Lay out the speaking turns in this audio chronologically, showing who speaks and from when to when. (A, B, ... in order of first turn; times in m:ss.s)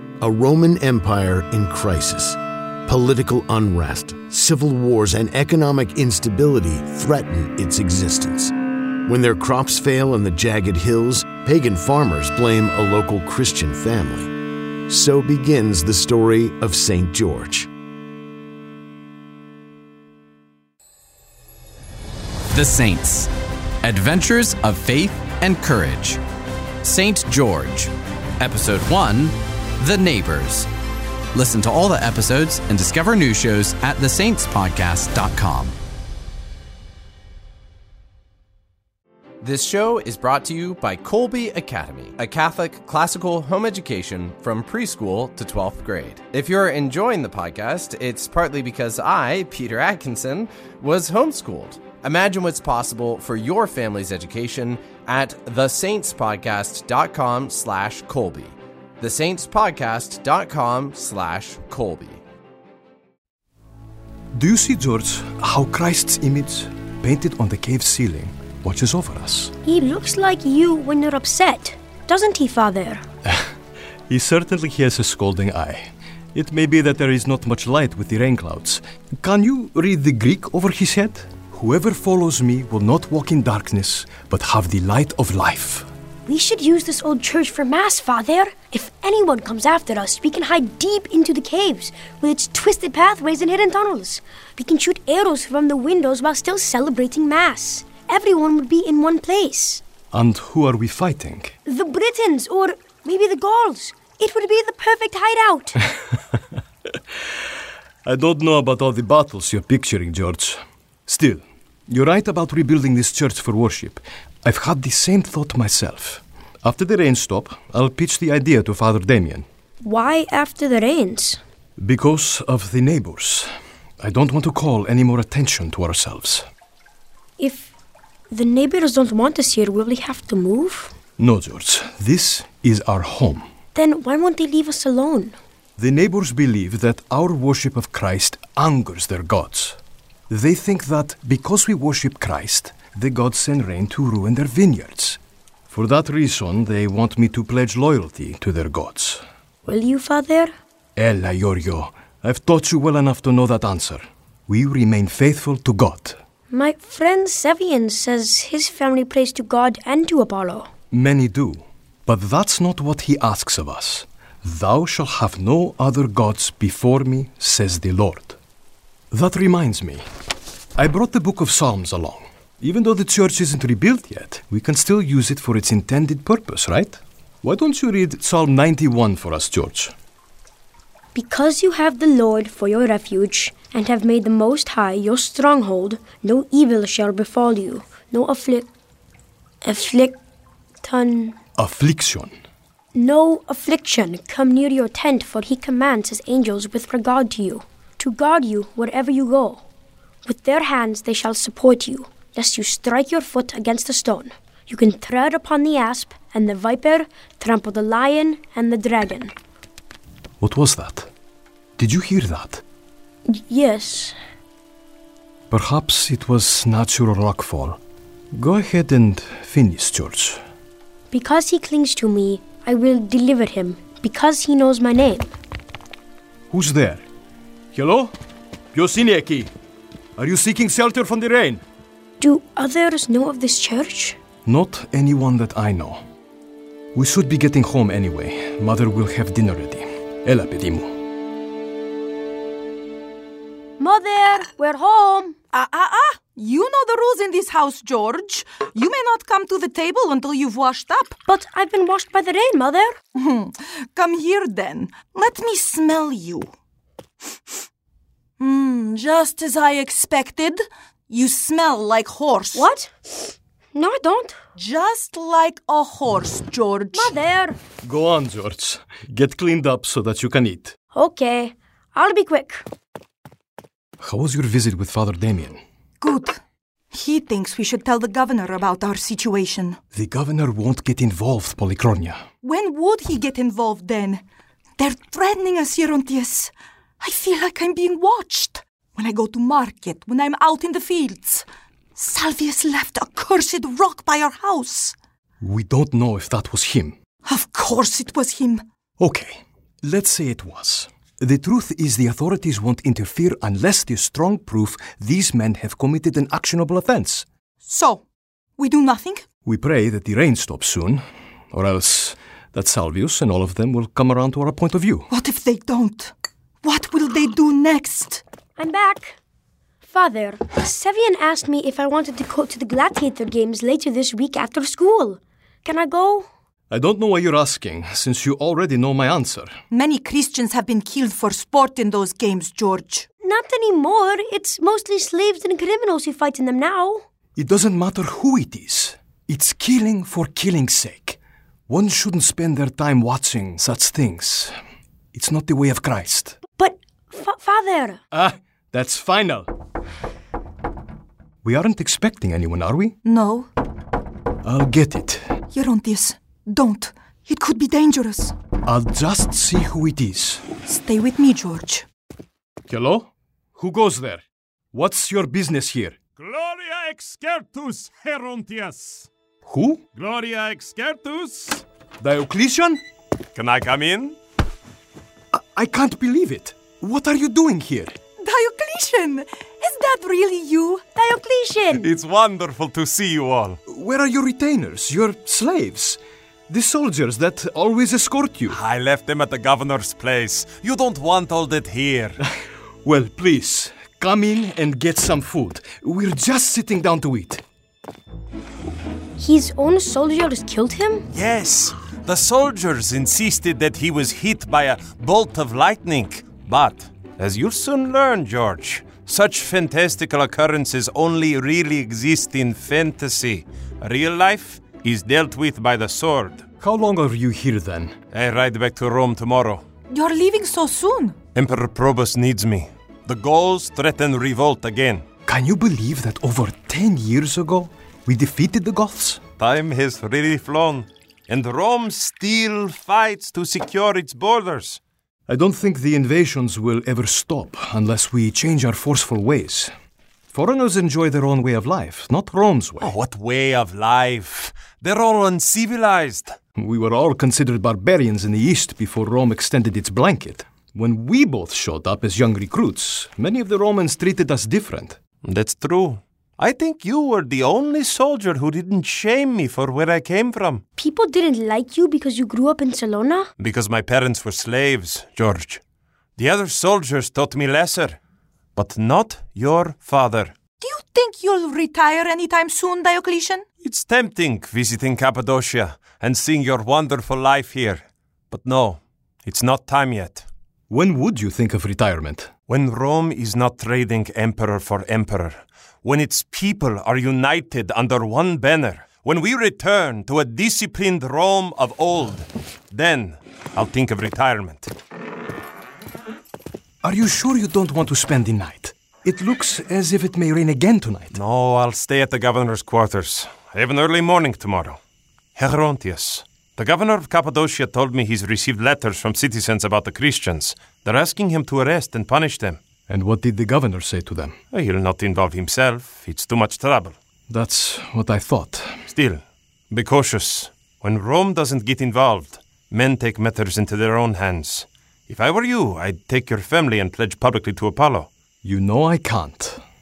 0:00.2-0:08.5 A
0:09.0-0:14.3 A
0:14.9-0:17.7 A
0:22.5-0:23.3 B
0:23.8-0:26.2 B
0:26.8-0:30.7 B
0:31.3-0:35.8 B
0:39.4-1:02.2 B
1:04.3-1:09.5 C
1:09.6-1:13.0 D
1:14.1-1:25.9 C
1:26.2-1:39.8 D
1:40.1-1:41.5 C
1:41.7-1:45.8 D
1:48.0-1:59.4 C
1:59.8-2:01.4 D
2:01.8-2:03.5 C
2:04.0-2:06.5 C
2:07.4-2:07.7 D
2:08.3-2:10.9 D
2:11.2-2:13.4 C
2:13.7-2:15.4 D
2:15.8-2:19.8 C
2:20.3-2:29.2 C
2:29.7-2:30.5 D
2:31.0-2:36.2 C
2:36.5-2:40.7 D
2:40.9-2:48.4 C
2:49.1-2:50.0 C
2:50.8-2:59.9 C
3:01.1-3:08.7 D
3:09.6-3:10.2 D
3:10.8-3:11.4 D
3:11.6-3:12.3 C
3:12.9-3:19.6 D
3:20.2-3:29.3 D
3:30.4-3:31.1 C
3:31.8-3:32.6 C
3:33.3-3:34.2 D
3:35.5-3:37.8 C
3:38.3-3:40.4 C
3:41.1-3:45.3 D
3:46.5-3:47.0 C
3:47.7-3:48.1 C
3:48.7-3:49.5 C
3:50.2-3:51.6 C
3:52.2-3:54.2 D
3:54.5-3:56.0 C
3:56.9-4:00.9 C
4:03.8-4:05.4 D
4:05.5-4:11.2 E
4:11.2-4:13.0 D
4:13.1-4:16.5 E
4:18.4-4:22.7 E
4:22.5-4:22.9 D
4:23.7-4:24.4 D
4:24.6-4:27.2 E
4:26.9-4:27.6 D
4:27.8-4:30.8 C
4:30.9-4:32.6 D
4:34.0-4:35.6 C
4:36.0-4:36.4 E
4:36.9-4:39.8 E
4:39.9-4:42.2 C
4:42.4-4:44.2 E
4:44.8-4:54.9 E
4:55.4-4:57.0 C
4:57.2-4:58.6 E
4:59.0-5:07.2 C
5:07.6-5:08.0 E
5:08.6-5:09.2 E
5:09.4-5:15.1 C
5:15.1-5:18.2 E
5:18.6-5:19.2 D
5:19.8-5:26.2 D
5:26.7-5:29.6 C
5:29.7-5:33.0 E
5:33.2-5:37.0 D
5:37.4-5:44.5 C
5:45.1-5:46.4 C
5:46.6-5:48.0 D
5:48.1-5:49.5 C
5:51.4-5:53.0 C
5:53.0-5:53.5 E
5:54.4-5:55.2 C
5:55.5-5:58.3 E
5:58.6-6:00.4 C
6:00.6-6:01.8 E
6:02.7-6:06.0 C
6:06.2-6:09.1 F
6:09.5-6:09.8 C
6:09.9-6:11.6 F
6:12.0-6:12.8 C
6:13.3-6:14.2 F
6:15.3-6:18.0 C
6:18.2-6:20.8 E
6:20.9-6:21.9 D
6:21.8-6:23.6 F
6:23.7-6:28.6 C
6:28.5-6:32.2 F
6:32.8-6:37.4 C
6:39.2-6:41.0 D
6:41.1-6:56.4 F
6:56.6-6:57.9 C
6:58.1-6:59.6 F
6:59.9-7:01.2 E
7:01.3-7:05.0 F
7:05.2-7:09.2 C
7:09.4-7:14.8 F
7:15.3-7:19.7 C
7:20.3-7:22.9 C
7:22.8-7:26.3 F
7:26.6-7:35.0 C
7:35.2-7:40.6 F
7:40.8-7:43.3 D
7:43.4-7:45.6 F
7:46.2-7:48.0 F
7:48.6-7:50.3 F
7:50.6-7:53.4 E
7:53.6-8:00.2 F
8:00.7-8:02.3 C
8:02.5-8:14.7 F
8:16.8-8:21.2 C
8:21.1-8:24.8 F
8:25.4-8:32.6 F
8:32.9-8:34.4 C
8:34.5-8:36.9 F
8:37.3-8:38.7 C
8:38.9-8:48.1 F
8:48.4-8:49.6 C